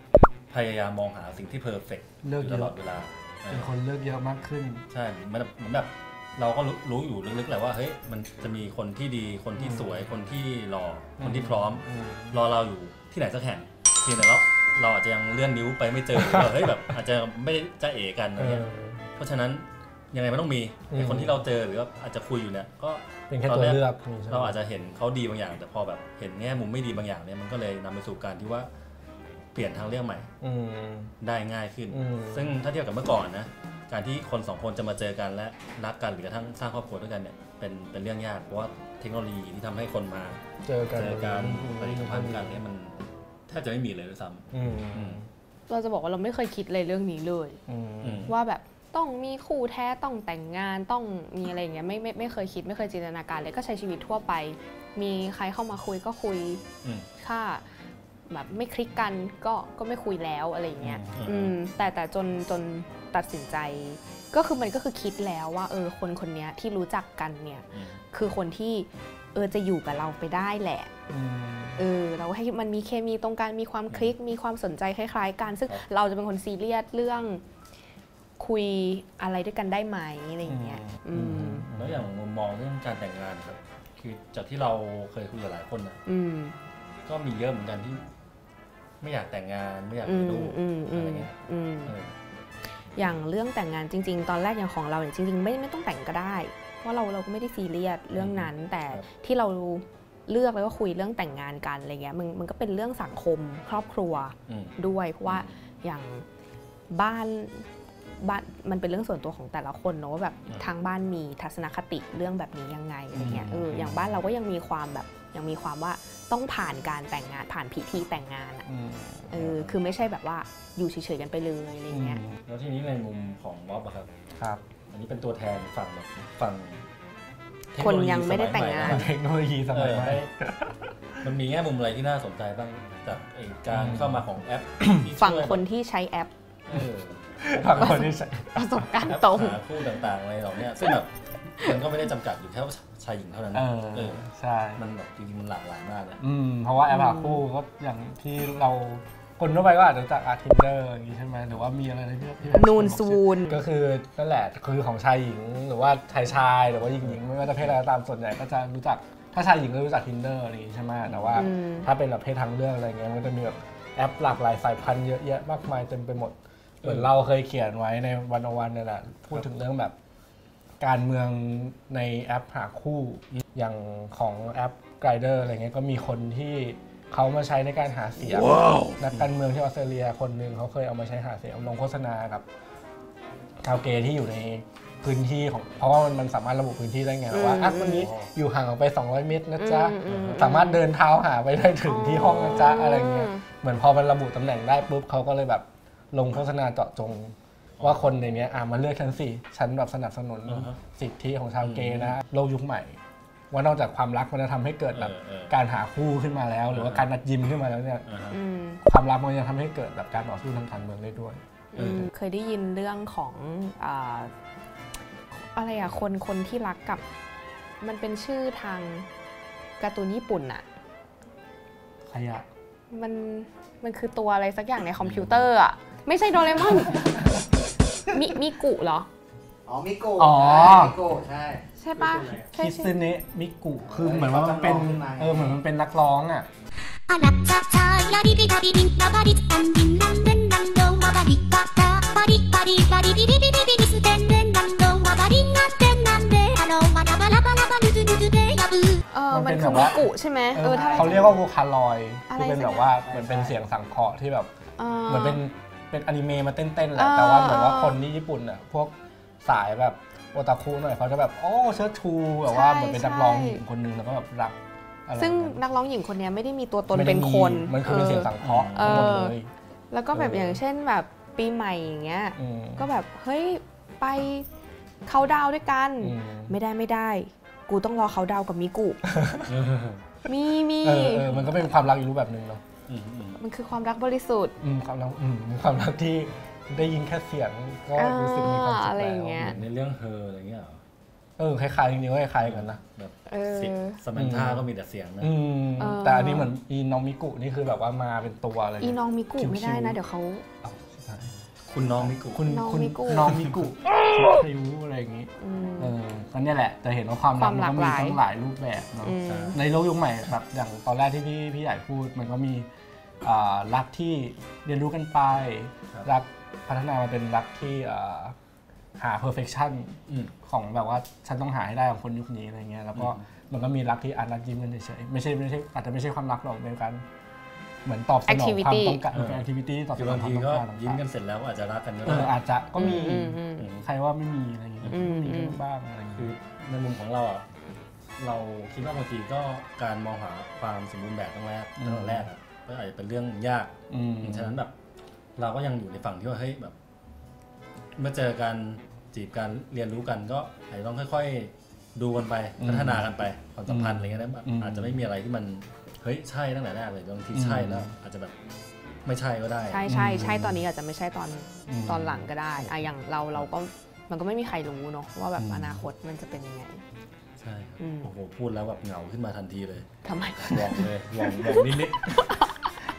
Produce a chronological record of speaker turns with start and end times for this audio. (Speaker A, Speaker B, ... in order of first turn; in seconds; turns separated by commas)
Speaker A: 0.5-3.7, Speaker B: 2.2-2.8, Speaker B: 3.5-4.8, Speaker A: 4.9-28.7, Speaker B: 9.6-9.9, Speaker B: 11.2-12.4, Speaker B: 16.1-16.7, Speaker B: 18.4-19.1, Speaker B: 20.9-21.4, Speaker B: 23.3-24.6, Speaker A: 29.5-30.3, Speaker B: 30.4-31.1, Speaker A: 31.2-40.4, Speaker B: 31.9-32.5, Speaker B: 40.6-42.6, Speaker A: 40.9-43.0, Speaker A: 43.5-45.2, Speaker B: 44.5-45.3, Speaker C: 45.7-47.6, Speaker B: 47.7-48.3, Speaker A: 48.0-48.3, Speaker C: 48.3-56.6, Speaker C: 57.2-57.6, Speaker C: 58.3-70.9, Speaker B: 60.8-61.3, Speaker A: 61.1-61.6, Speaker A: 67.7-68.0, Speaker B: 71.1-71.9, Speaker C: 71.8-77.4, Speaker C: 78.4-81.7, Speaker B: 80.4-82.1, Speaker A: 81.7-86.0, Speaker C: 86.1-86.6, Speaker A: 87.1-88.1, Speaker A: 89.0-91.3, Speaker C: 90.0-91.9, Speaker A: 91.8-92.2, Speaker C: 93.0-106.2, Speaker A: 98.1-99.0, Speaker A: 104.5-105.5, Speaker C: 106.9-107.6, Speaker C: 108.2-118.7, Speaker A: 113.1-113.9, Speaker B: 113.1-114.1, Speaker B: 118.7-119.5, Speaker C: 119.3-122.2, Speaker A: 119.3-119.8, Speaker B: 121.9-122.4, Speaker A: 122.5-124.1, Speaker B: 124.4-124.6, Speaker A: 124.9-126.8, Speaker A: 127.7-129.1, Speaker C: 127.8-129.0, Speaker B: 128.8-131.2, Speaker A: 129.7-130.3, Speaker A: 131.2-135.6, Speaker B: 133.7-134.2, Speaker B: 134.8-135.1, Speaker C: 135.2-136.3, Speaker A: 136.7-137.9, Speaker B: 137.4-138.9, Speaker C: 137.7-139.6, Speaker A: 139.0-144.2, Speaker B: 143.5-144.8, Speaker A: 144.8-146.2, Speaker B: 146.2-169.9, Speaker C: 146.9-147.4, Speaker C: 152.5-153.6, Speaker A: 157.0-157.8, Speaker A: 161.1-161.5, Speaker C: 161.3-161.9, Speaker A: 166.8-167.1, Speaker B: 170.8-182.4, Speaker B: 183.6-203.0, Speaker C: 187.3-188.1, Speaker A: 188.0-188.3, Speaker C: 189.6-190.8, Speaker A: 190.1-190.4, Speaker C: 191.8-193.4, Speaker A: 197.8-198.1, Speaker A: 200.5-200.8, Speaker A: 201.6-202.2, Speaker B: 203.5-208.1, Speaker A: 204.9-205.5, Speaker A: 206.7-207.1, Speaker A: 208.1-208.4, Speaker C: 208.3-208.8, Speaker B: 208.8-212.1, Speaker C: 211.7-214.3, Speaker C: 215.3-217.0, Speaker C: 217.8-219.1, Speaker C: 219.8-220.7, Speaker B: 222.1-222.4, Speaker C: 222.9-227.3, Speaker A: 225.0-225.5, Speaker C: 228.1-229.1, Speaker D: 229.7-232.4, Speaker B: 230.2-231.1, Speaker C: 231.8-233.0, Speaker B: 232.5-236.5, Speaker D: 233.9-235.6, Speaker E: 237.1-249.0, Speaker C: 249.1-251.4, Speaker B: 249.3-254.5, Speaker C: 252.3-253.1, Speaker C: 254.8-255.4, Speaker B: 255.1-265.6, Speaker C: 256.9-258.0, Speaker C: 262.5-263.6, Speaker C: 265.1-269.3, Speaker B: 266.9-269.5, Speaker A: 268.3-269.2, Speaker C: 269.9-274.4, Speaker B: 270.1-270.6, Speaker B: 272.4-272.9, Speaker C: 275.1-279.0, Speaker B: 276.0-276.6, Speaker B: 279.1-279.5, Speaker A: 279.4-280.1, Speaker C: 280.2-281.2, Speaker B: 280.8-282.6, Speaker A: 281.2-281.6, Speaker A: 282.9-283.4, Speaker C: 283.4-284.6, Speaker B: 284.6-289.6, Speaker C: 287.9-289.6, Speaker A: 289.4-290.8, Speaker B: 291.4-292.8, Speaker A: 292.4-295.3, Speaker C: 293.3-294.0, Speaker B: 294.1-294.7, Speaker B: 295.2-300.0, Speaker C: 295.8-296.5, Speaker C: 298.8-300.4, Speaker B: 300.6-301.4, Speaker A: 301.7-302.5, Speaker B: 301.9-312.7, Speaker C: 302.4-303.3, Speaker A: 303.3-303.6, Speaker C: 305.4-305.9, Speaker C: 307.3-308.2, Speaker C: 309.0-309.6, Speaker A: 309.2-309.6, Speaker B: 313.2-318.3, Speaker B: 319.0-327.0, Speaker A: 320.1-320.3, Speaker A: 322.9-323.2, Speaker B: 327.8-331.0, Speaker C: 328.3-329.0, Speaker A: 329.1-329.4, Speaker A: 329.9-332.4, Speaker B: 332.1-336.3, Speaker C: 332.8-333.7, Speaker A: 333.6-333.8, Speaker C: 334.9-335.6, Speaker A: 336.1-337.4, Speaker A: 338.2-344.7, Speaker B: 341.8-342.3, Speaker B: 343.9-344.6, Speaker A: 345.4-346.7, Speaker A: 348.0-358.3, Speaker B: 352.6-353.1, Speaker B: 353.7-355.0, Speaker B: 357.3-357.9, Speaker A: 359.1-359.9, Speaker C: 359.6-366.8, Speaker B: 359.9-360.7, Speaker B: 361.7-362.7, Speaker B: 365.4-365.8, Speaker A: 367.4-369.9, Speaker C: 367.8-368.1, Speaker C: 370.0-372.5, Speaker A: 370.4-372.2